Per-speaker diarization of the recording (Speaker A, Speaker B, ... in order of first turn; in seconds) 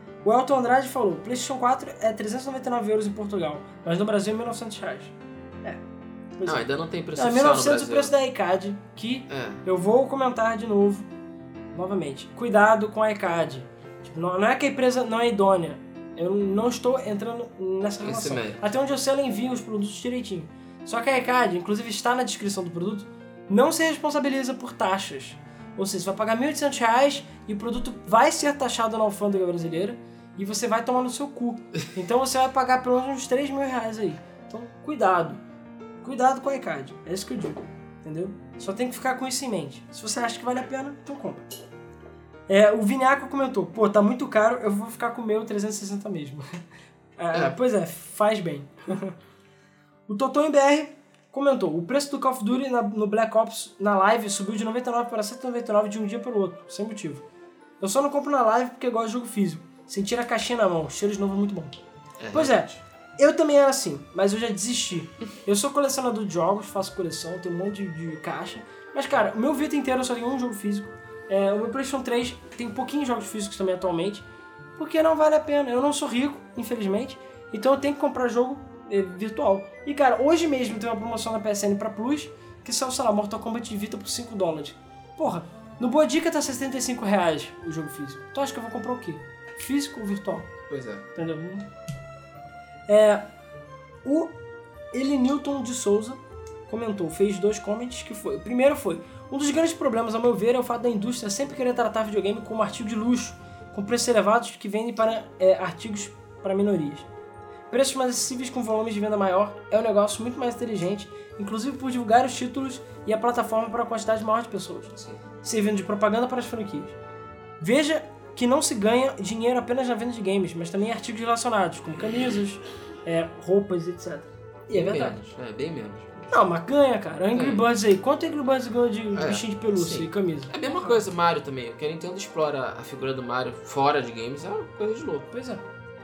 Speaker A: 0.2-5.8, 6.4-11.1, 11.7-35.4, 36.0-41.4, 42.5-46.5, 47.2-49.2, 50.1-57.2, 57.8-61.8, 62.3-74.2, 74.8-90.5, 91.2-91.7, 92.9-93.3, 94.0-94.3, 94.9-107.1, 107.7-117.0, 117.6-125.2, 126.3-131.0, 135.3-135.6
Speaker B: 6.5-8.1, 9.3-9.6, 18.0-18.6, 62.2-62.8, 90.7-91.0, 124.7-126.4, 127.3-127.7, 129.1-135.3